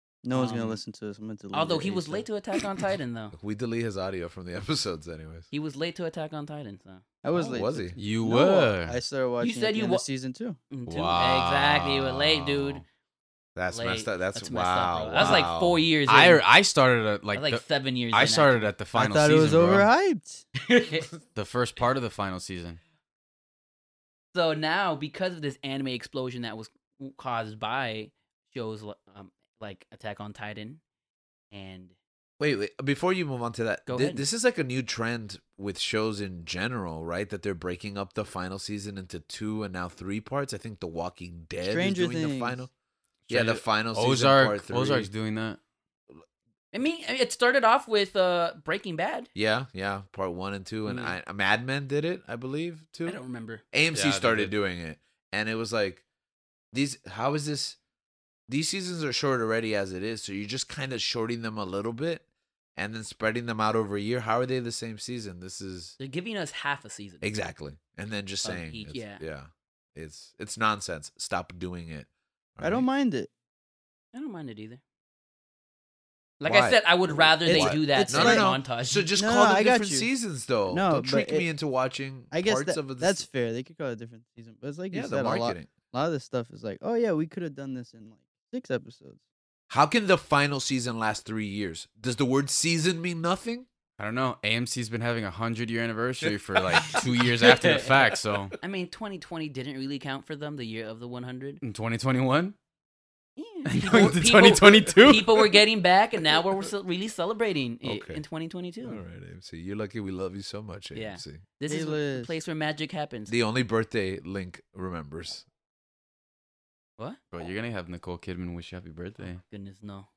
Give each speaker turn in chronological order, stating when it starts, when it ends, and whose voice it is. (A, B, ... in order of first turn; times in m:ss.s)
0:00.2-0:02.3 A
0:00.3-0:00.8 B
0:01.5-0:03.4 B
0:03.3-0:05.5 C
0:05.5-0:07.0 B
0:07.2-0:10.6 A
0:07.3-0:08.0 C
0:08.0-0:09.0 D
0:09.4-0:10.0 B
0:10.7-0:12.8 B
0:10.9-0:12.8 D
0:13.6-0:15.8 C
0:13.7-0:16.4 B
0:15.2-0:15.5 D
0:16.1-0:19.9 D
0:17.4-0:18.6 B
0:18.9-0:20.5 A
0:20.6-0:21.1 B
0:21.3-0:22.8 D
0:24.3-0:30.8 B
0:31.5-0:32.0 B
0:32.4-0:42.7 C
0:33.9-0:34.2 B
0:41.6-0:42.6 A
0:43.3-0:45.6 D
0:43.3-0:45.1 C
0:46.7-0:49.3 B
0:49.4-0:53.2 C
0:50.9-0:51.2 B
0:53.1-0:53.6 B
0:53.7-0:56.0 C
0:53.9-0:54.5 D
0:56.7-0:57.8 C
0:58.5-1:02.2 C
1:02.8-1:06.0 C
1:06.0-1:07.2 B
1:07.2-1:12.9 C
1:08.4-1:09.2 B
1:12.6-1:13.3 A
1:14.1-1:14.8 B
1:16.4-1:19.1 B
1:16.5-1:23.3 C
1:17.4-1:18.5 A
1:19.2-1:20.1 A
1:20.7-1:21.5 A
1:22.3-1:29.2 A
1:24.9-1:25.7 C
1:29.7-1:33.7 C
1:34.0-1:38.6 D
1:36.7-1:37.2 C
1:37.4-1:38.0 B
1:38.6-1:41.6 B
1:41.6-1:42.6 D
1:43.4-1:49.0 B
1:43.7-1:45.6 D
1:47.8-1:48.2 C
1:48.8-1:51.4 C
1:50.9-1:53.3 B
1:51.7-1:52.4 A
1:53.3-1:55.5 C
1:57.3-1:59.4 D
1:59.5-2:00.1 B